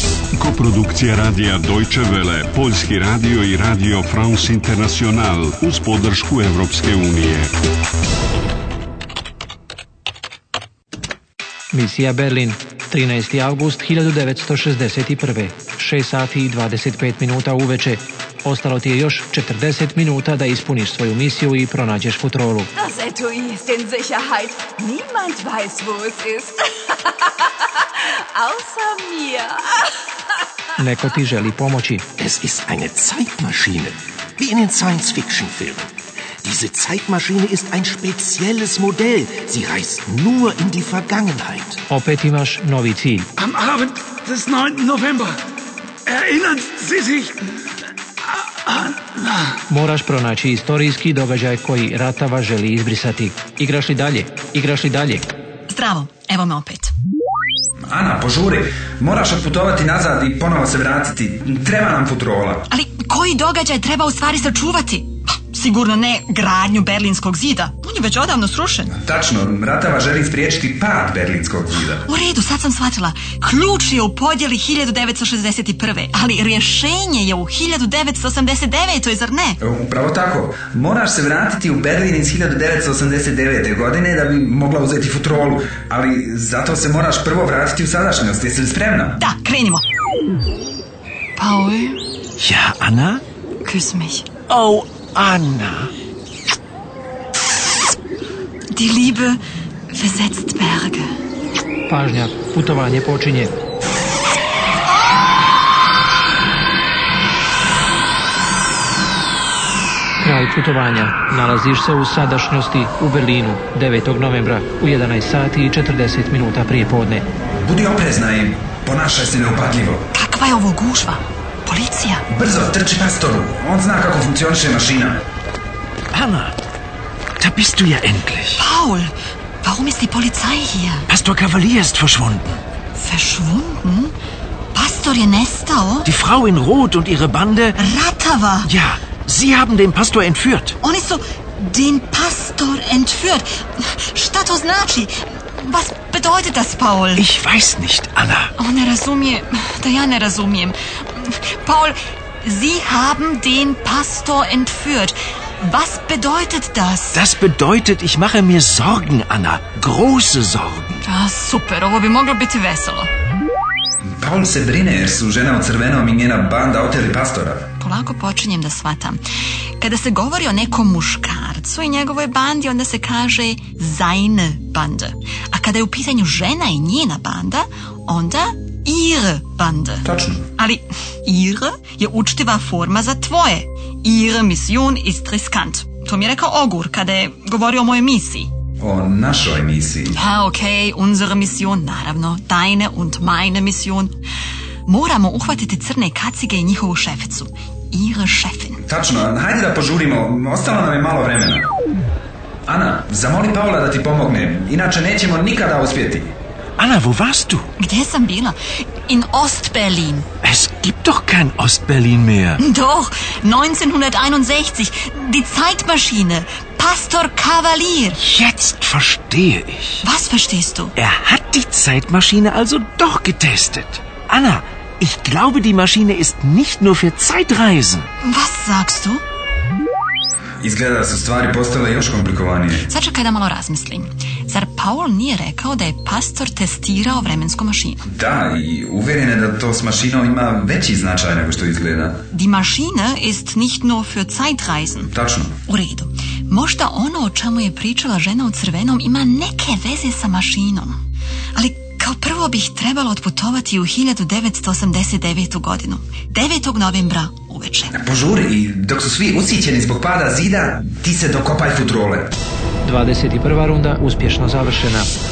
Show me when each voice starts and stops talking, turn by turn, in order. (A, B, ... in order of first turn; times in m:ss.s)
0:00.3-0:07.5 A
0:11.7-0:22.7 B
0:22.8-0:29.9 C
0:30.8-0:32.0 B
0:32.2-0:35.9 D
0:36.4-0:41.8 D
0:41.9-0:43.3 B
0:43.4-0:45.4 E
0:46.0-0:47.3 E
0:48.6-0:49.3 E
0:49.7-0:55.2 B
0:55.7-0:56.9 F
0:57.9-1:02.6 G
1:02.7-1:08.9 F
1:08.9-1:12.0 G
1:12.0-1:19.6 F
1:19.6-1:29.2 G
1:29.2-1:29.8 F
1:31.4-1:32.0 F
1:32.4-1:33.2 D
1:33.6-1:34.3 F
1:34.5-1:35.9 D
1:38.7-1:39.4 F
1:39.9-1:41.1 F
1:41.9-1:43.5 B
1:50.2-1:57.2 B
1:57.6-2:00.0 G
2:00.1-2:02.2 F
2:02.3-2:05.2 G
2:06.1-2:06.5 D
2:07.4-2:08.6 D
2:08.6-2:11.1 F
2:11.1-2:12.6 D
2:13.0-2:14.1 F
2:14.7-2:16.1 F
2:16.0-2:17.8 D
2:17.8-2:18.7 F
2:18.6-2:20.7 D
2:20.8-2:27.3 F
2:27.1-2:28.5 D
2:28.6-2:37.2 F
2:37.1-2:41.0 D
2:41.0-2:43.1 F
2:44.1-2:47.6 G
2:47.8-2:49.2 F
2:49.8-3:00.0 F
3:00.0-3:00.4 G
3:00.6-3:08.5 F
3:08.8-3:10.2 G
3:10.1-3:14.2 F
3:14.8-3:18.8 F
3:18.8-3:21.7 G
3:22.7-3:26.3 G
3:26.8-3:27.6 D
3:27.8-3:28.6 F
3:29.1-3:30.3 F
3:30.4-3:32.6 D
3:32.6-3:38.2 F
3:38.1-3:40.0 D
3:40.0-3:40.9 F
3:41.0-3:48.1 D
3:48.2-3:49.2 F
3:50.6-3:52.9 G
3:52.9-3:58.0 F
3:58.1-4:02.2 G
4:02.3-4:05.1 F
4:05.1-4:05.5 G
4:05.7-4:11.0 F
4:11.6-4:17.9 F
4:17.9-4:22.3 G
4:22.8-4:25.1 B